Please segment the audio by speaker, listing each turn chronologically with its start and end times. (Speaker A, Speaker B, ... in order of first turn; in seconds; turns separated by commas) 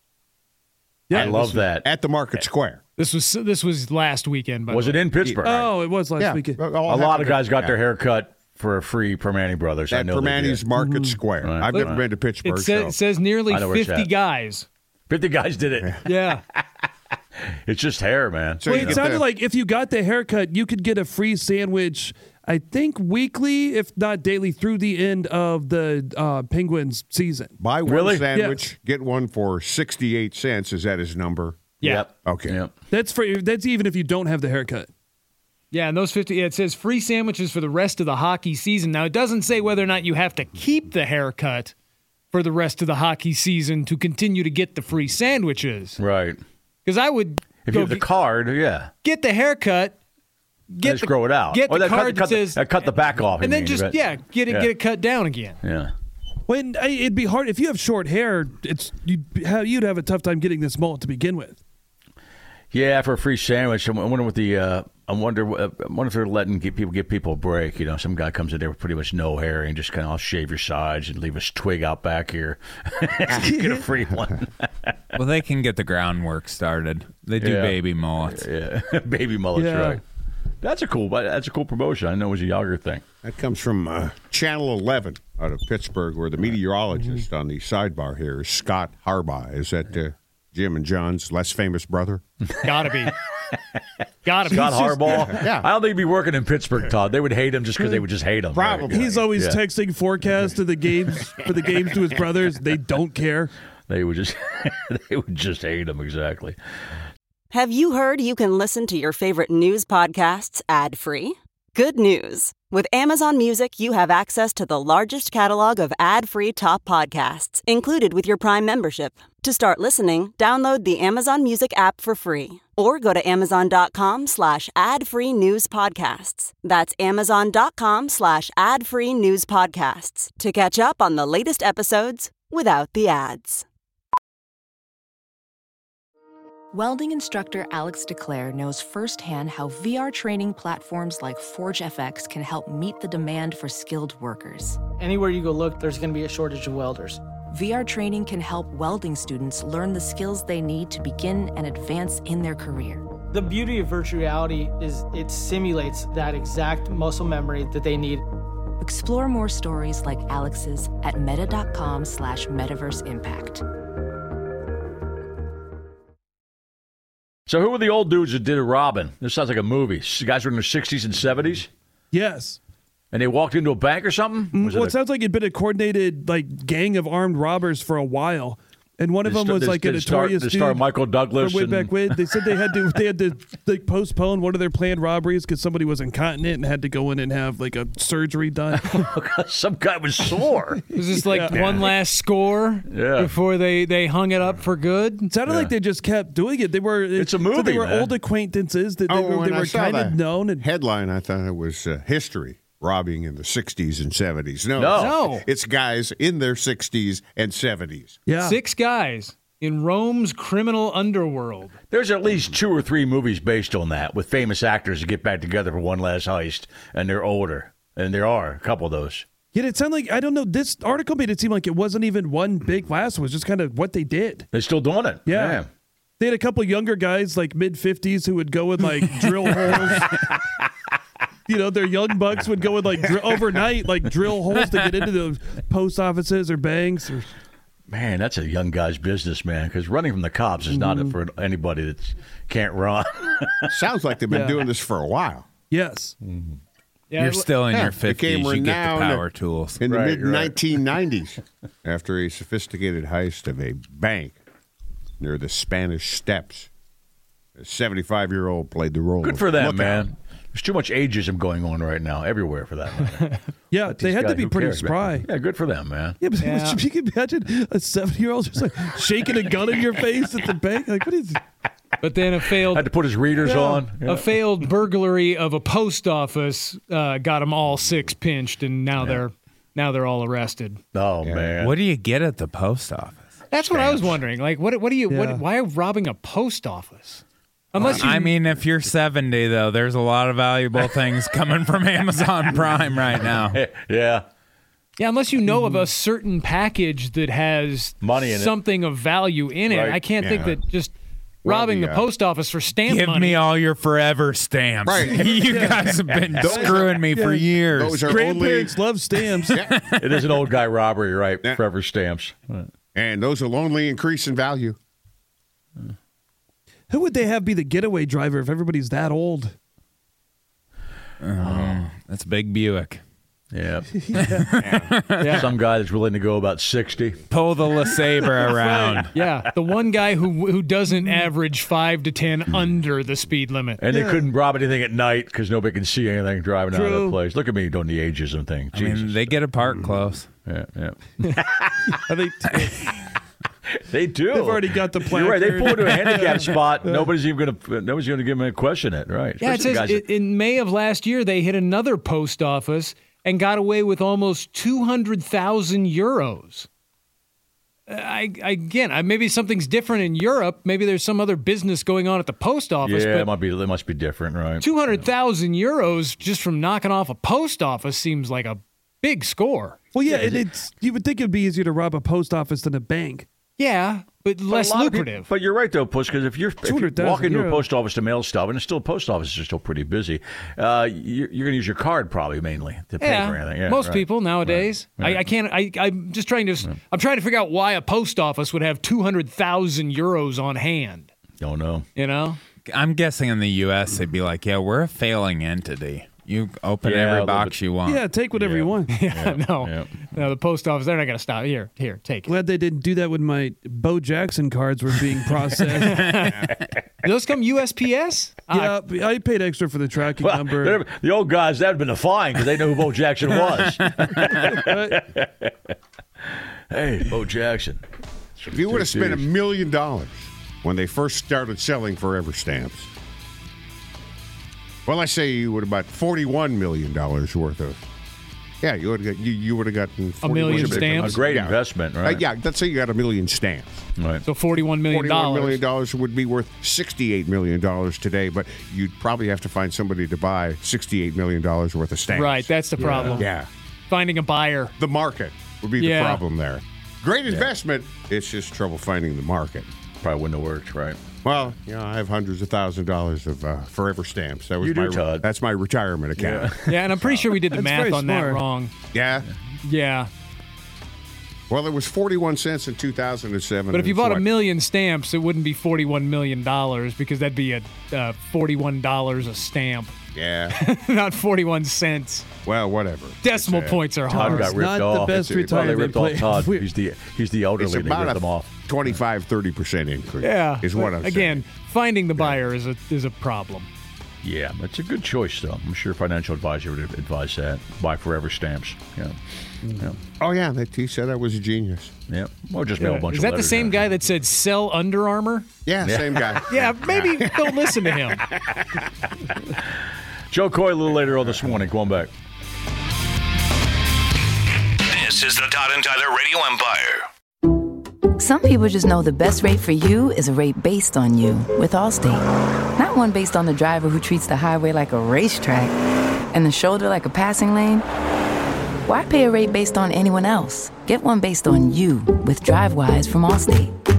Speaker A: 1.1-1.7, Speaker B: 1.1-1.9, Speaker C: 1.1-2.8, Speaker D: 3.0-5.0, Speaker B: 4.7-5.7, Speaker C: 5.2-5.6, Speaker A: 5.4-6.7, Speaker C: 6.2-7.8, Speaker B: 6.8-10.7, Speaker C: 9.9-13.0, Speaker A: 10.8-11.2, Speaker B: 11.4-12.0, Speaker D: 12.4-14.7, Speaker B: 13.5-14.1, Speaker B: 15.1-16.6, Speaker D: 16.1-16.4, Speaker B: 17.6-19.1, Speaker C: 18.6-19.3, Speaker A: 18.6-27.6, Speaker C: 27.6-31.7, Speaker B: 27.9-28.3, Speaker A: 28.3-28.7, Speaker D: 31.8-32.1, Speaker B: 31.8-32.7, Speaker C: 32.2-32.6, Speaker A: 32.9-34.9, Speaker D: 35.7-41.7, Speaker D: 42.3-46.0, Speaker B: 46.0-46.4, Speaker D: 46.9-48.1, Speaker B: 47.6-48.9, Speaker D: 49.0-50.0, Speaker D: 50.7-55.6, Speaker B: 50.8-54.7, Speaker B: 55.6-55.9, Speaker A: 56.5-61.6, Speaker B: 62.7-75.0, Speaker A: 73.3-73.8, Speaker E: 75.2-78.5, Speaker B: 77.4-80.0, Speaker A: 79.5-80.0, Speaker B: 80.6-83.0, Speaker C: 83.2-92.2, Speaker D: 92.6-93.1, Speaker D: 94.2-95.3, Speaker B: 94.5-99.6, Speaker C: 95.2-95.7, Speaker A: 97.8-98.0, Speaker C: 98.5-99.3, Speaker A: 98.9-103.5, Speaker B: 103.9-106.6, Speaker F: 107.5-133.7, Speaker G: 136.7-144.8, Speaker H: 145.0-147.2, Speaker G: 147.5-153.1, Speaker H: 153.3-158.2, Speaker G: 158.8-163.6, Speaker B: 167.5-171.7, Speaker A: 172.1-172.6, Speaker B: 173.1-174.9, Speaker A: 174.5-189.0, Speaker B: 179.2-182.2, Speaker B: 188.8-190.8, Speaker D: 190.9-195.3, Speaker A: 191.3-191.7, Speaker C: 191.5-191.9, Speaker B: 192.9-193.3, Speaker A: 195.3-200.7, Speaker B: 195.4-195.7, Speaker B: 197.2-198.2, Speaker C: 199.1-208.2, Speaker B: 204.8-205.2, Speaker D: 204.9-205.4, Speaker A: 208.3-208.6, Speaker D: 208.4-211.8, Speaker B: 211.9-219.2, Speaker A: 219.5-224.5, Speaker B: 224.5-225.7, Speaker A: 225.3-225.6, Speaker A: 226.2-230.2, Speaker A: 231.5-237.3, Speaker B: 237.9-243.7, Speaker A: 240.7-241.2, Speaker C: 243.7-245.5, Speaker A: 244.3-244.7, Speaker A: 245.7-246.2, Speaker B: 246.2-246.6, Speaker D: 247.1-247.5, Speaker E: 247.2-249.8, Speaker C: 247.7-249.3, Speaker C: 249.8-254.4, Speaker B: 249.8-250.7, Speaker C: 255.2-256.7, Speaker C: 257.6-260.1, Speaker B: 259.2-266.2, Speaker A: 263.7-265.3, Speaker A: 266.2-271.4, Speaker D: 266.4-266.8, Speaker D: 272.0-272.9, Speaker B: 272.7-274.4, Speaker A: 273.4-273.9, Speaker D: 274.0-280.8, Speaker B: 280.9-281.8, Speaker C: 281.2-281.5, Speaker E: 281.6-284.1, Speaker D: 283.5-288.4, Speaker A: 285.1-285.4, Speaker A: 287.8-288.1, Speaker E: 287.9-293.6, Speaker B: 293.5-294.2, Speaker D: 295.0-300.9, Speaker A: 295.5-295.9, Speaker B: 298.0-298.6, Speaker B: 299.7-300.5, Speaker C: 301.4-302.1, Speaker D: 301.4-303.4, Speaker E: 302.9-308.2, Speaker C: 304.9-307.1, Speaker A: 305.4-309.6, Speaker C: 307.7-308.8, Speaker E: 309.5-310.0, Speaker B: 310.0-312.7, Speaker C: 312.9-314.8, Speaker A: 316.9-319.6, Speaker E: 321.2-323.0, Speaker B: 321.4-321.9, Speaker B: 323.5-323.9, Speaker A: 323.9-324.5, Speaker E: 324.2-325.5, Speaker C: 324.6-324.9, Speaker D: 325.2-325.5, Speaker B: 325.3-327.2, Speaker E: 327.3-329.1, Speaker A: 327.9-329.1, Speaker D: 329.1-333.8, Speaker A: 330.9-331.3, Speaker B: 333.8-339.4, Speaker A: 333.9-334.2, Speaker A: 336.7-337.2, Speaker E: 338.7-340.3, Speaker B: 340.5-341.9, Speaker A: 342.0-342.8, Speaker B: 343.7-350.1, Speaker A: 344.3-347.1, Speaker D: 349.4-356.7, Speaker D: 357.9-363.3, Speaker B: 362.8-365.0, Speaker D: 364.6-369.8, Speaker A: 369.9-373.3, Speaker B: 370.1-370.5, Speaker D: 373.6-375.3, Speaker B: 374.5-385.3, Speaker A: 376.6-377.6, Speaker D: 383.0-391.1, Speaker B: 391.4-391.9, Speaker D: 392.0-392.4, Speaker E: 392.7-398.1, Speaker B: 396.8-397.6, Speaker A: 397.8-399.0, Speaker B: 398.4-400.1, Speaker D: 398.9-402.3, Speaker A: 402.3-406.1, Speaker D: 405.8-406.5, Speaker D: 407.0-408.8, Speaker A: 408.5-410.8, Speaker B: 410.2-415.7, Speaker A: 414.1-415.0, Speaker B: 416.7-417.8, Speaker B: 418.4-419.3, Speaker C: 418.5-422.9, Speaker C: 424.9-427.8, Speaker C: 428.6-433.8, Speaker D: 430.2-431.2, Speaker B: 430.5-432.2, Speaker B: 434.0-434.2, Speaker D: 434.2-435.6, Speaker C: 434.7-443.5, Speaker D: 442.1-443.3, Speaker A: 442.8-443.2, Speaker D: 443.9-444.7, Speaker C: 444.8-449.7, Speaker D: 445.8-446.2, Speaker B: 450.0-451.0, Speaker C: 451.2-457.2, Speaker B: 454.6-455.3, Speaker B: 456.2-457.4, Speaker D: 456.7-458.7, Speaker A: 457.5-458.4, Speaker C: 458.9-459.3, Speaker D: 459.6-460.1, Speaker C: 461.5-464.3, Speaker D: 463.7-469.9, Speaker C: 470.1-470.6, Speaker D: 470.5-472.3, Speaker C: 472.4-473.9, Speaker D: 473.2-474.5, Speaker B: 474.1-478.9, Speaker A: 474.2-476.7, Speaker C: 475.1-475.6, Speaker C: 477.6-481.4, Speaker D: 480.2-483.7, Speaker B: 484.2-489.1, Speaker C: 490.2-491.9, Speaker B: 492.1-493.8, Speaker D: 492.8-495.5, Speaker C: 495.6-498.6, Speaker B: 495.8-496.5, Speaker D: 496.5-498.3, Speaker B: 500.3-502.1, Speaker I: 504.9-507.0, Speaker J: 508.2-512.2, Speaker J: 512.8-515.7, Speaker J: 516.3-517.8, Speaker J: 518.9-523.6